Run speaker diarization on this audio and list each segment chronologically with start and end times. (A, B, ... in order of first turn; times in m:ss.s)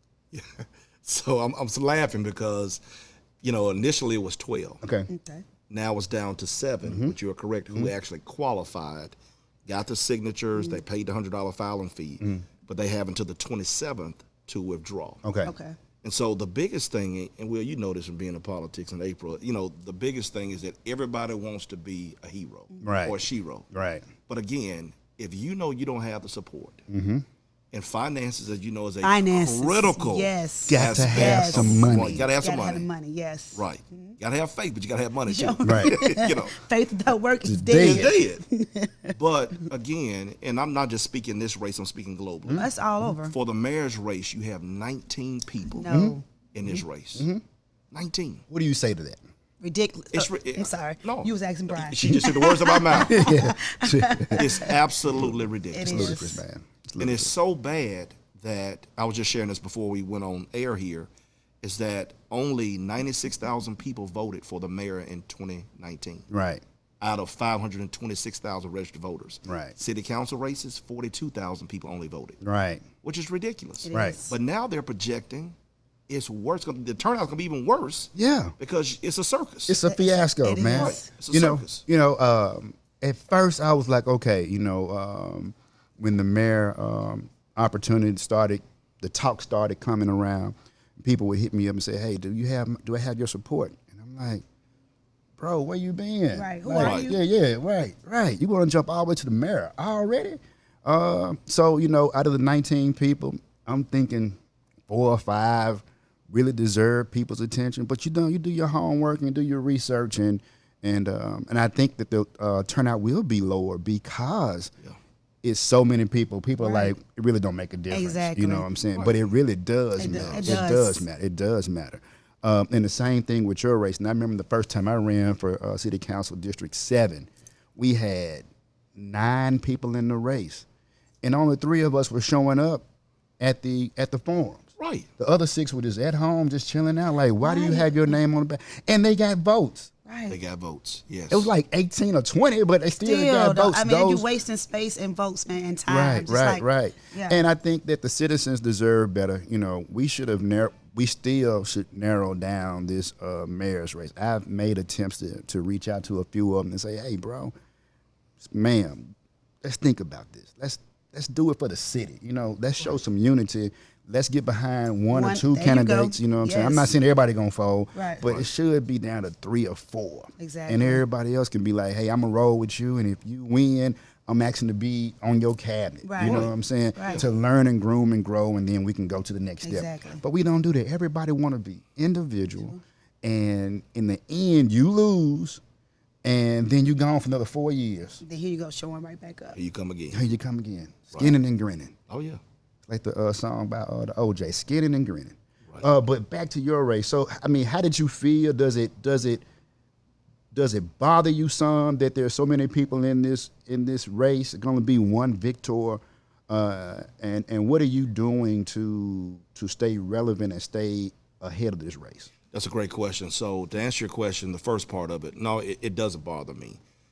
0:00.3-0:02.8 A
0:03.4-0:04.8 A
0:04.8-0:05.1 B
0:05.1-0:05.4 C
0:05.7-0:15.2 A
0:06.8-0:07.2 B
0:12.2-0:12.5 B
0:15.2-0:15.5 B
0:15.4-0:15.8 C
0:16.0-0:23.7 A
0:22.7-0:23.0 C
0:22.8-0:23.2 B
0:23.7-0:24.1 B
0:24.3-0:26.8 A
0:26.9-0:27.2 B
0:27.7-0:32.9 A
0:29.0-0:34.2 C
0:30.7-0:32.3 B
0:33.5-0:36.6 A
0:35.2-0:39.2 C
0:35.6-0:36.0 B
0:37.4-0:38.1 B
0:37.7-0:38.4 A
0:39.1-0:42.7 A
0:42.4-0:43.1 B
0:42.5-0:43.4 C
0:43.2-0:45.9 A
0:45.8-0:46.2 C
0:45.9-0:46.2 B
0:46.5-0:47.3 A
0:47.2-0:47.4 B
0:47.9-0:48.4 A
0:48.5-0:49.2 B
0:49.6-0:54.8 C
0:50.1-0:53.4 A
0:53.0-0:57.3 B
0:54.4-0:56.2 A
0:55.7-0:56.4 C
0:57.0-1:01.1 A
1:01.6-1:06.3 A
1:06.3-1:06.6 B
1:07.0-1:12.4 A
1:09.4-1:09.8 B
1:12.4-1:12.8 B
1:13.0-1:15.6 A
1:13.8-1:14.4 C
1:16.1-1:19.8 A
1:18.2-1:18.6 B
1:19.7-1:34.4 B
1:19.9-1:21.1 C
1:20.7-1:21.8 A
1:35.4-1:44.4 B
1:36.3-1:37.2 C
1:36.8-1:37.1 A
1:44.9-1:54.7 B
1:55.4-2:10.7 B
1:56.6-1:56.9 C
1:57.9-1:58.7 C
1:58.9-1:59.2 A
2:00.0-2:01.1 C
2:00.1-2:00.7 A
2:11.2-2:12.8 B
2:13.4-2:14.6 B
2:14.8-2:15.1 A
2:15.2-2:19.9 B
2:17.4-2:18.2 C
2:20.1-2:20.4 C
2:20.3-2:21.5 A
2:21.3-2:24.3 B
2:23.0-2:27.4 C
2:25.9-2:37.5 B
2:38.4-3:05.6 B
2:45.1-2:46.9 C
2:47.9-2:48.2 C
2:50.4-2:51.0 C
2:56.0-2:57.3 C
2:56.2-2:56.5 A
2:59.6-3:00.2 C
3:06.2-3:08.2 B
3:08.2-3:09.6 C
3:09.6-3:10.3 A
3:10.1-3:12.0 B
3:11.1-3:11.4 A
3:12.1-3:12.4 A
3:12.9-3:19.4 B
3:20.5-3:32.3 B
3:32.5-3:36.8 A